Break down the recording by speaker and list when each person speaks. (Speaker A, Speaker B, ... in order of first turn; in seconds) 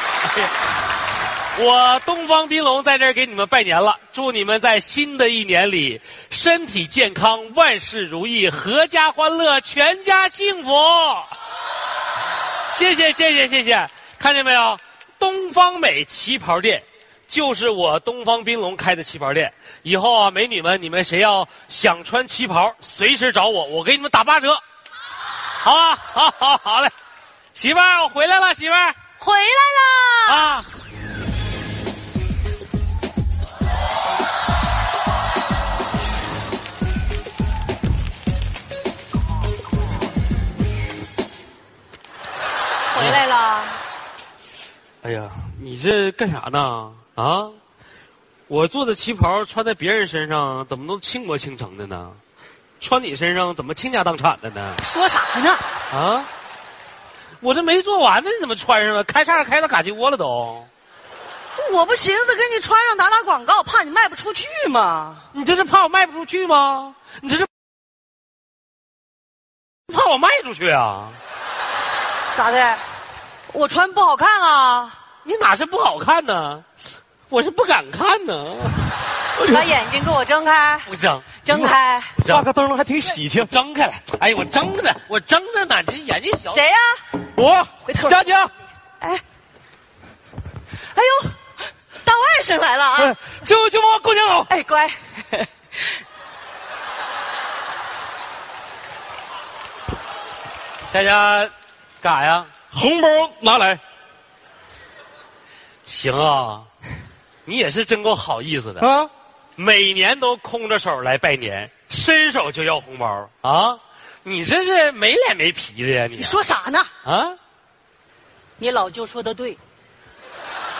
Speaker A: 1.6-11.3, 12.7-24.6, 25.6-26.9, 27.6-28.9, 30.3-30.6, 45.0-47.6, 48.5-52.2, 52.8-54.8, 55.9-56.3, 57.4-60.7, 65.3-67.5, 69.9-71.2, 75.2-76.6, 77.3-78.9, 80.9-81.4, 82.2-82.5, 83.3-86.6, 100.9-102.5, 105.9-106.7, 107.5-108.9, 109.6-116.4, 117.0-117.4
Speaker B: 29.2-30.4, 42.9-43.8, 54.8-55.6, 61.6-65.3, 72.3-72.8, 73.5-75.0, 79.5-80.9, 81.4-82.2, 86.5-87.2, 87.9-88.3, 90.9-93.2, 94.5-96.0, 116.2-116.9, 118.6-119.6
Speaker C: 79.4-79.7, 81.5-83.5, 87.3-88.5, 93.0-94.5, 102.7-103.8, 108.8-109.1